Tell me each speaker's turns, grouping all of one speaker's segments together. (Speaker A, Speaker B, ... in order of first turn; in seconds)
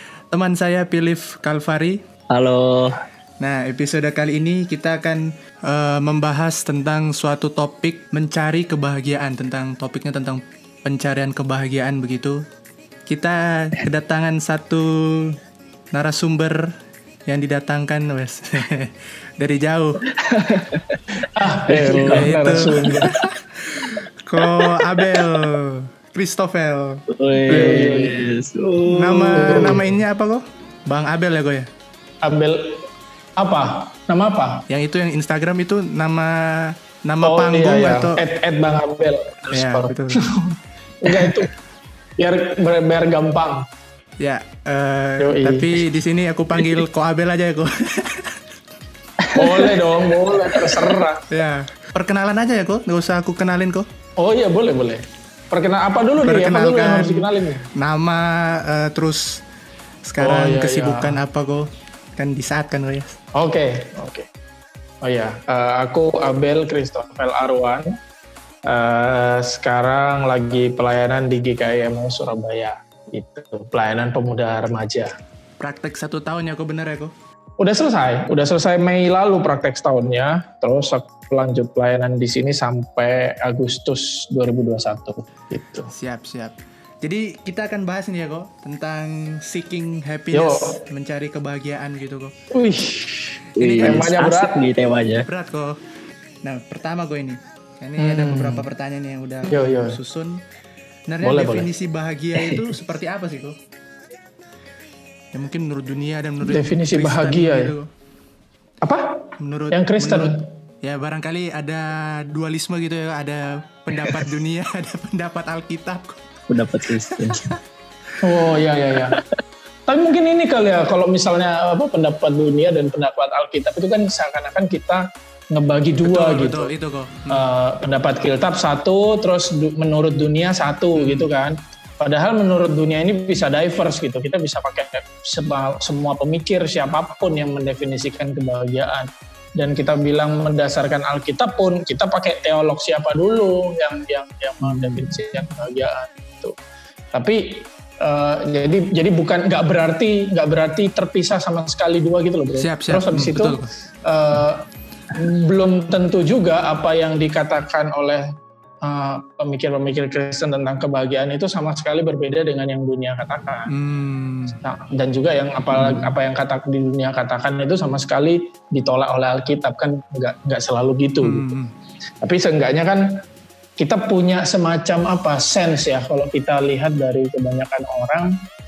Speaker A: 0.3-2.0, 3.4-12.4, 13.1-15.4, 15.9-16.7, 17.3-20.0, 21.8-27.8, 29.0-31.7, 34.7-38.2, 39.5-40.2, 44.2-48.3, 51.3-53.9, 56.2-59.4, 60.0-63.2, 75.6-77.1, 85.9-92.3, 93.6-94.1, 95.2-95.8, 96.4-100.4, 101.1-103.6, 105.3-107.9, 109.4-110.3, 110.8-116.3, 117.1-117.6, 126.0-127.5, 130.9-131.3, 152.6-153.7, 163.7-164.6, 171.2-171.7
Speaker B: 2.3-3.0, 20.2-21.0, 21.7-23.1, 27.1-29.8, 49.2-49.8, 93.6-95.3, 102.4-102.7, 116.5-117.4
Speaker C: 21.4-23.1, 27.5-28.1, 29.4-29.9, 32.2-32.9, 33.4-34.6, 37.2-41.5, 42.2-43.6, 45.2-45.8, 49.4-51.2, 54.2-57.6, 60.2-61.2, 63.3-64.3, 65.0-67.9, 68.7-75.1, 77.6-85.9, 90.3-90.8, 92.5-94.6, 98.0-98.7, 99.5-100.0, 101.2-101.7, 106.5-107.7, 108.8-110.4, 118.2-119.2, 119.9-126.7, 127.3-146.6, 147.1-158.2, 158.8-163.7, 164.6-171.5, 172.2-173.2, 173.8-178.3